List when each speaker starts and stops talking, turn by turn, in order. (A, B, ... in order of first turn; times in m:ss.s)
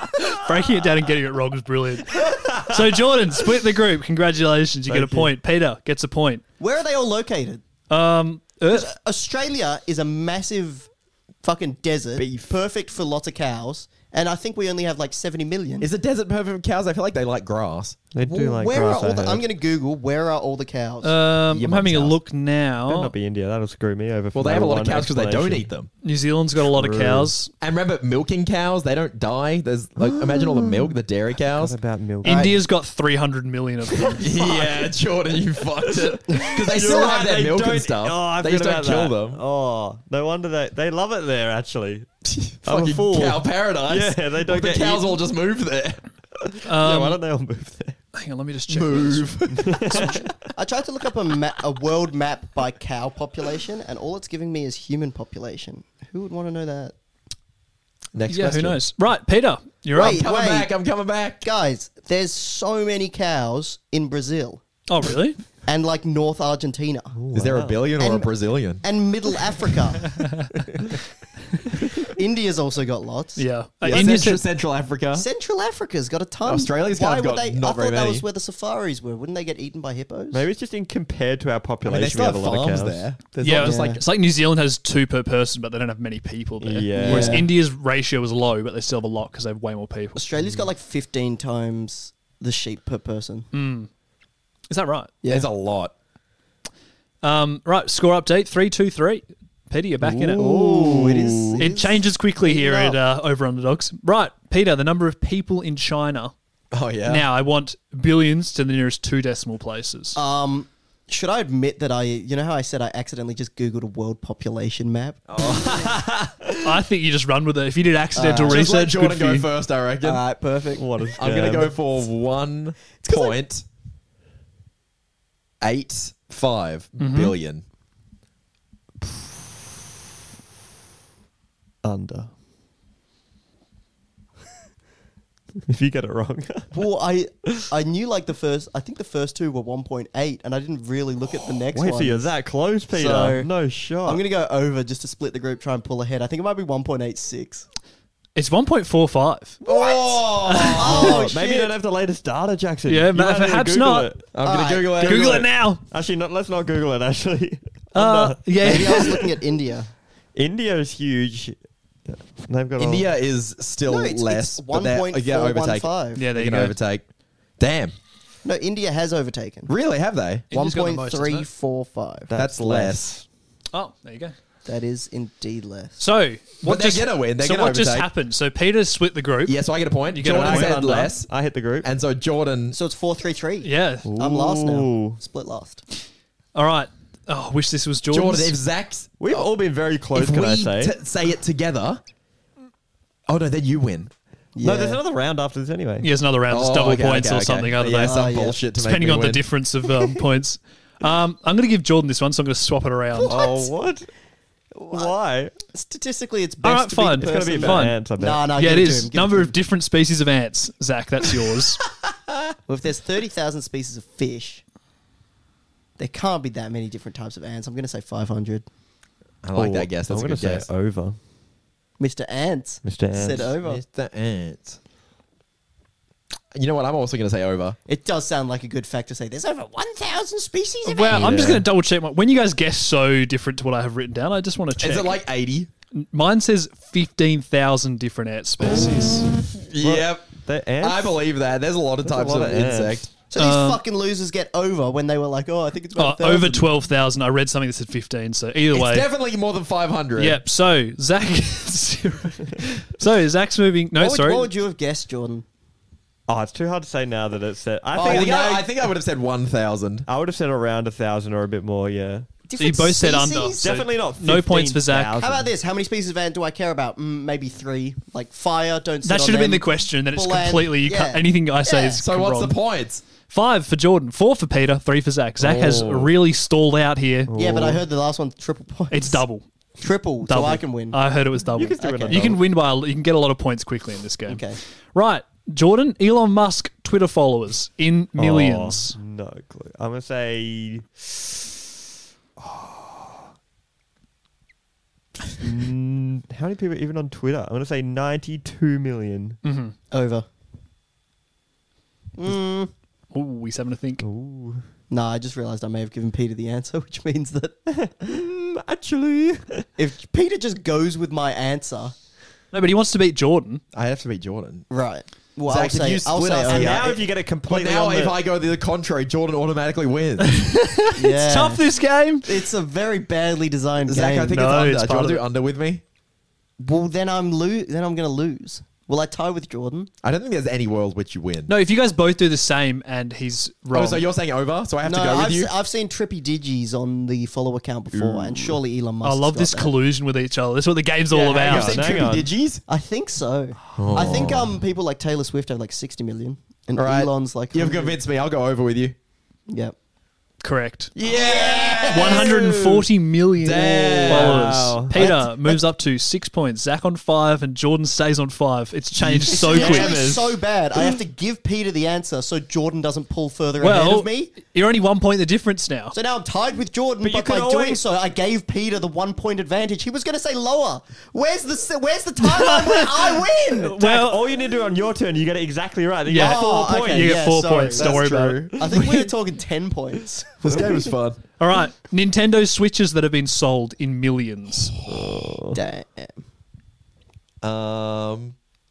0:00.3-0:06.4 A
0:04.9-0:05.3 B
0:06.6-0:07.6 C
0:07.9-0:08.9 A
0:08.7-0:10.9 C
0:11.4-0:15.9 C
0:12.2-0:12.5 B
0:15.8-0:18.0 D
0:18.1-0:19.4 B
0:18.2-0:21.1 C
0:21.0-0:23.1 A
0:21.5-0:22.2 D
0:22.8-0:25.7 B
0:24.3-0:25.9 D
0:26.0-0:27.5 A
0:26.7-0:27.3 B
0:27.6-0:31.8 D
0:30.0-0:30.9 B
0:31.5-0:32.6 B
0:32.2-0:34.3 A
0:34.0-0:34.7 B
0:34.2-0:39.4 D
0:35.9-0:42.1 B
0:42.2-0:46.0 D
0:42.6-0:45.2 B
0:46.4-0:48.0 B
0:46.6-0:47.2 A
0:48.1-0:49.3 A
0:48.7-0:50.2 D
0:49.5-0:50.3 B
0:50.4-0:56.9 C
0:58.1-0:58.8 D
0:58.3-1:00.2 A
0:59.9-1:00.7 C
1:00.0-1:01.4 D
1:01.4-1:04.6 C
1:04.9-1:05.4 A
1:05.6-1:07.1 C
1:07.1-1:07.8 B
1:07.3-1:08.8 D
1:08.0-1:10.1 C
1:12.1-1:14.3 C
1:13.4-1:14.4 A
1:13.8-1:15.2 D
1:15.1-1:20.4 C
1:16.4-1:18.2 D
1:20.3-1:23.0 B
1:21.8-1:24.0 D
1:23.4-1:30.2 A
1:23.6-1:24.0 C
1:26.6-1:27.5 B
1:27.0-1:27.5 C
1:30.1-1:33.5 C
1:30.4-1:30.7 B
1:33.5-1:33.9 A
1:34.7-1:35.1 A
1:35.2-1:35.5 C
1:35.3-1:35.9 D
1:37.2-1:40.4 A
1:40.0-1:41.6 B
1:40.4-1:43.0 C
1:41.6-1:46.3 A
1:46.7-1:47.2 D
1:47.0-1:50.2 A
1:50.1-1:55.2 C
1:55.3-1:56.8 B
1:56.6-1:59.5 A
1:58.1-1:58.6 C
1:58.4-2:00.2 D
2:00.0-2:00.8 C
2:00.8-2:01.8 B
2:01.2-2:03.6 D
2:03.0-2:03.4 C
2:05.6-2:07.6 D
2:07.0-2:07.3 A
2:11.8-2:12.3 B
2:15.7-2:16.7 B
2:16.7-2:22.4 C
2:21.7-2:24.2 B
2:22.9-2:23.5 C
2:24.0-2:27.7 C
2:28.3-2:29.6 A
2:29.6-2:31.3 D
2:29.6-2:31.7 C
2:30.5-2:30.9 A
2:30.9-2:34.3 B
2:32.9-2:34.1 A
2:34.3-2:35.5 D
2:34.4-2:35.1 C
2:35.0-2:35.8 A
2:35.8-2:39.2 B
2:37.9-2:39.2 A
2:38.6-2:39.9 C
2:40.3-2:43.1 B
2:42.8-2:47.0 D
2:43.8-2:46.2 C
2:46.2-2:46.7 A
2:47.6-2:48.0 D
2:48.4-2:49.7 C
2:49.7-2:50.4 D
2:50.5-2:51.5 A
2:50.5-2:52.3 C
2:52.3-2:53.2 B
2:52.4-2:53.2 D
2:53.7-2:54.3 A
2:54.6-2:56.0 C
2:56.0-2:59.6 A
2:56.6-2:58.1 D
2:59.4-3:02.8 D
3:00.1-3:01.1 A
3:00.3-3:01.9 B
3:02.7-3:05.8 C
3:03.6-3:04.1 A
3:04.0-3:05.2 B
3:06.5-3:08.5 A
3:08.1-3:09.5 D
3:09.2-3:10.9 B
3:10.1-3:12.0 D
3:13.3-3:14.1 D
3:14.6-3:15.0 C
3:14.6-3:16.1 B
3:16.0-3:23.4 A
3:16.5-3:19.4 D
3:18.0-3:18.6 C
3:23.1-3:23.7 C
3:23.3-3:24.1 B
3:24.8-3:25.5 B
3:24.9-3:25.1 C
3:25.7-3:29.5 C
3:26.6-3:28.0 A
3:27.2-3:28.5 B
3:28.5-3:31.8 A
3:32.7-3:34.6 C
3:36.0-3:38.6 C
3:39.4-3:40.7 D
3:39.5-3:41.2 B
3:42.0-3:43.8 C
3:42.8-3:43.5 B
3:43.6-3:44.8 D
3:46.5-3:47.8 D
3:47.9-3:51.4 C
3:50.8-3:55.2 A
3:51.1-3:51.6 B
3:51.2-3:51.5 D
3:54.8-3:55.7 D
3:55.9-3:59.2 A
3:58.6-3:59.2 B
3:59.5-4:03.1 D
3:59.8-4:01.2 B
4:02.0-4:03.0 B
4:03.3-4:06.7 C
4:03.4-4:03.8 A
4:06.0-4:09.1 A
4:08.7-4:10.4 D
4:10.2-4:14.5 A
4:14.0-4:15.4 C
4:16.3-4:18.9 B
4:17.9-4:20.1 D
4:20.0-4:22.3 B
4:22.5-4:23.6 C
4:22.6-4:25.2 A
4:23.6-4:25.5 B
4:25.2-4:32.0 C
4:29.0-4:32.6 A
4:32.0-4:33.0 D
4:33.3-4:37.3 A
4:35.4-4:36.2 D
4:37.3-4:37.8 B
4:37.4-4:39.2 C
4:38.9-4:39.4 A
4:39.8-4:41.0 C
4:40.3-4:49.0 A
4:41.5-4:42.4 B
4:41.8-4:42.4 C
4:44.3-4:44.6 C
4:48.2-4:50.9 B
4:52.4-4:53.2 B
4:55.4-4:59.4 B
4:59.4-4:59.7 A
4:59.9-5:00.2 C
5:02.2-5:02.7 C
5:03.1-5:04.0 A
5:04.0-5:04.6 B
5:04.9-5:07.6 C
5:07.7-5:09.7 B
5:09.8-5:11.9 C
5:12.5-5:13.6 A
5:13.7-5:14.7 D
5:14.7-5:17.0 C
5:15.5-5:20.4 D
5:16.4-5:18.2 B
5:20.2-5:22.2 A
5:21.0-5:21.6 C
5:22.2-5:24.4 C
5:23.9-5:25.8 D
5:24.3-5:25.2 A
5:26.6-5:29.9 C
5:30.0-5:31.5 D
5:31.5-5:34.0 A
5:33.7-5:35.5 D
5:34.8-5:39.7 C
5:37.9-5:38.6 B
5:39.0-5:41.8 A
5:41.1-5:41.8 C
5:41.4-5:42.6 D
5:41.4-5:42.3 B
5:42.7-5:48.0 C
5:43.7-5:44.3 B
5:43.7-5:44.5 D
5:46.8-5:49.0 D
5:49.5-5:49.7 C
5:50.4-5:50.9 A
5:50.9-5:52.6 D
5:51.0-5:52.3 C
5:51.9-6:00.0 A
5:53.4-5:54.5 D
5:54.0-5:55.0 B
5:54.9-5:55.3 C
5:59.0-6:00.4 B
5:59.3-6:04.3 C
6:03.6-6:05.9 A
6:05.9-6:13.8 C
6:07.0-6:07.8 B
6:12.4-6:12.8 A
6:13.7-6:14.2 A
6:13.8-6:17.2 B
6:16.0-6:19.1 A
6:16.1-6:18.0 C
6:17.8-6:18.7 D
6:18.6-6:20.8 C
6:20.4-6:21.2 D
6:21.4-6:24.7 A
6:24.8-6:25.6 B
6:25.5-6:26.2 C
6:27.4-6:28.3 D